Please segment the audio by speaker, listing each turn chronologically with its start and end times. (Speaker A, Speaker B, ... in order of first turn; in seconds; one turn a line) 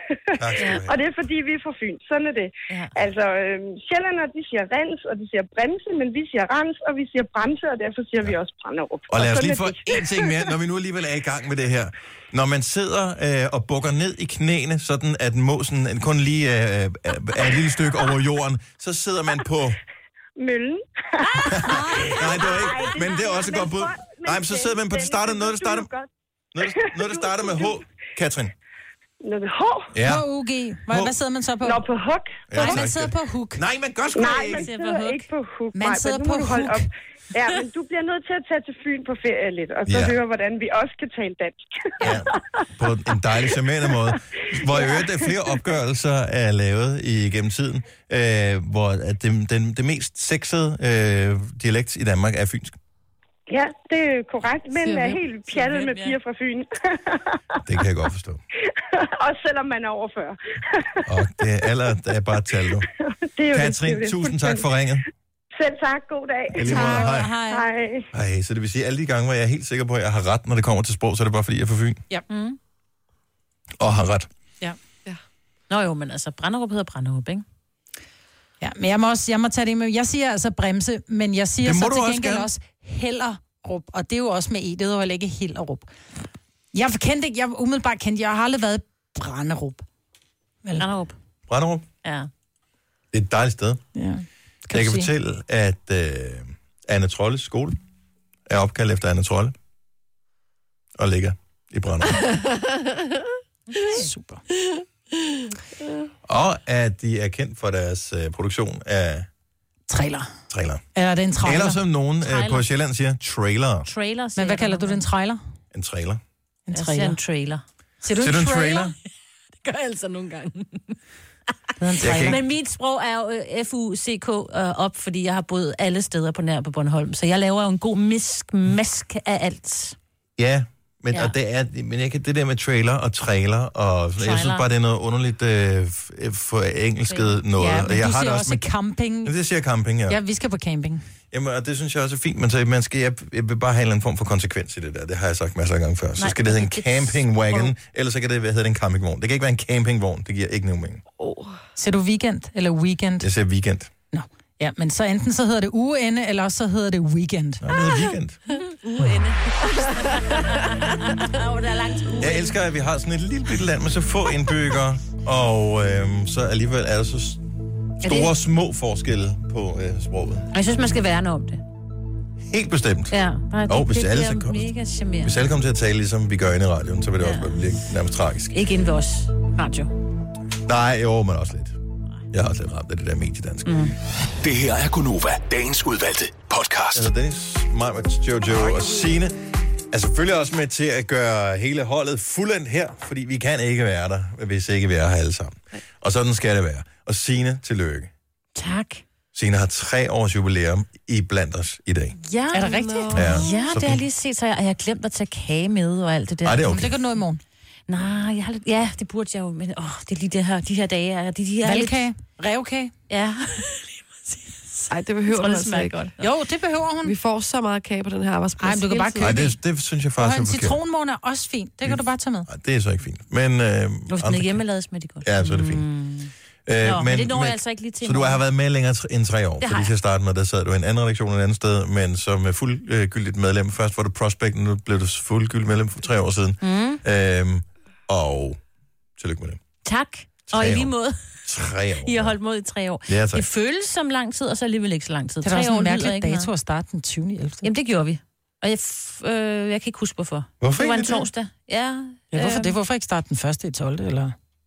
Speaker A: 0.4-1.1
Speaker B: 0.4-10.3
Speaker C: 0.6-0.8
Speaker C: 2.7-3.1
Speaker A: 9.1-19.8
Speaker B: 20.4-26.1
Speaker A: 21.5-25.9
Speaker D: 21.6-22.2
Speaker A: 26.5-28.5
Speaker B: 26.7-27.7
Speaker B: 29.2-29.9
Speaker A: 29.9-30.2
Speaker D: 30.0-31.9
Speaker B: 31.6-32.4
Speaker A: 32.5-34.7
Speaker C: 32.6-32.8
Speaker D: 32.6-33.6
Speaker B: 34.1-36.8
Speaker C: 34.4-35.3
Speaker D: 35.7-36.9
Speaker B: 37.4-41.6
Speaker A: 39.9-40.2
Speaker A: 42.0-52.8
Speaker B: 44.7-45.3
Speaker B: 53.5-56.7
Speaker C: 54.8-56.2
Speaker A: 57.6-58.4
Speaker B: 59.2-60.4
Speaker A: 61.0-62.9
Speaker B: 63.4-64.6
Speaker A: 63.5-65.0
Speaker B: 65.6-68.0
Speaker A: 66.5-67.4
Speaker D: 66.7-67.7
Speaker A: 68.1-72.0
Speaker C: 72.3-72.6
Speaker A: 73.8-74.3
Speaker C: 75.7-77.4
Speaker D: 78.6-85.9
Speaker A: 81.6-82.5
Speaker D: 86.7-89.8
Speaker C: 90.8-91.1
Speaker A: 91.5-91.8
Speaker C: 92.0-92.3
Speaker A: 93.1-93.8
Speaker D: 94.0-95.1
Speaker A: 94.7-97.8
Speaker A: 98.5-99.5
Speaker A: 101.0-102.2
Speaker E: 102.3-103.2
Speaker C: 103.7-104.1
Speaker D: 103.8-104.4
Speaker E: 105.2-106.1
Speaker A: 106.2-109.3
Speaker D: 109.9-110.3
Speaker A: 110.5-110.8
Speaker D: 110.9-111.8
Speaker A: 111.4-113.9
Speaker C: 112.2-112.6
Speaker C: 113.8-115.0
Speaker D: 114.3-115.4
Speaker A: 115.7-116.2
Speaker D: 116.7-117.2
Speaker C: 116.7-117.6
Speaker D: 118.0-118.9
Speaker A: 118.1-118.9
Speaker C: 119.6-121.0
Speaker D: 121.8-122.4
Speaker A: 122.0-122.4
Speaker C: 122.0-129.9
Speaker A: 130.4-138.7
Speaker C: 134.2-134.7
Speaker C: 137.1-137.4
Speaker D: 137.6-139.3
Speaker A: 139.2-140.2
Speaker D: 140.1-141.0
Speaker A: 141.3-151.0
Speaker C: 146.2-147.7
Speaker E: 151.2-151.6
Speaker D: 151.8-153.3
Speaker A: 153.2-153.9
Speaker D: 154.1-157.6
Speaker A: 157.6-158.4
Speaker C: 158.5-162.5
Speaker A: 162.2-167.4
Speaker A: 168.0-170.5
Speaker C: 168.0-168.3
Speaker C: 170.5-171.6
Speaker A: 172.4-173.2
Speaker C: 173.1-175.3
Speaker A: 173.7-174.7
Speaker A: 175.2-178.7
Speaker C: 177.2-177.8
Speaker C: 178.5-179.9
Speaker A: 180.6-181.8
Speaker A: 182.3-183.8
Speaker C: 183.7-183.9
Speaker F: 184.4-187.0
Speaker A: 186.9-189.3
Speaker A: 189.9-198.1
Speaker C: 198.6-199.0
Speaker A: 199.3-202.2
Speaker C: 202.2-206.9
Speaker D: 202.5-203.3
Speaker E: 202.7-203.5
Speaker A: 203.1-204.0
Speaker A: 206.4-206.9
Speaker D: 206.7-207.4
Speaker C: 207.9-212.0
Speaker D: 211.6-212.9
Speaker C: 213.1-216.3
Speaker E: 214.9-216.1
Speaker D: 216.2-217.1
Speaker E: 217.0-219.3
Speaker D: 218.6-219.6
Speaker A: 219.2-220.8
Speaker D: 220.2-222.5
Speaker A: 221.8-224.6
Speaker C: 224.1-228.4
Speaker A: 225.2-225.8
Speaker A: 226.7-238.6
Speaker C: 229.6-229.9
Speaker C: 236.6-237.0
Speaker A: 239.2-239.6
Speaker C: 239.8-241.2
Speaker A: 240.5-240.9
Speaker A: 241.4-242.3
Speaker C: 242.0-246.5
Speaker A: 243.1-243.4
Speaker D: 245.4-247.7
Speaker C: 247.6-252.8
Speaker A: 250.6-251.3
Speaker D: 252.3-254.3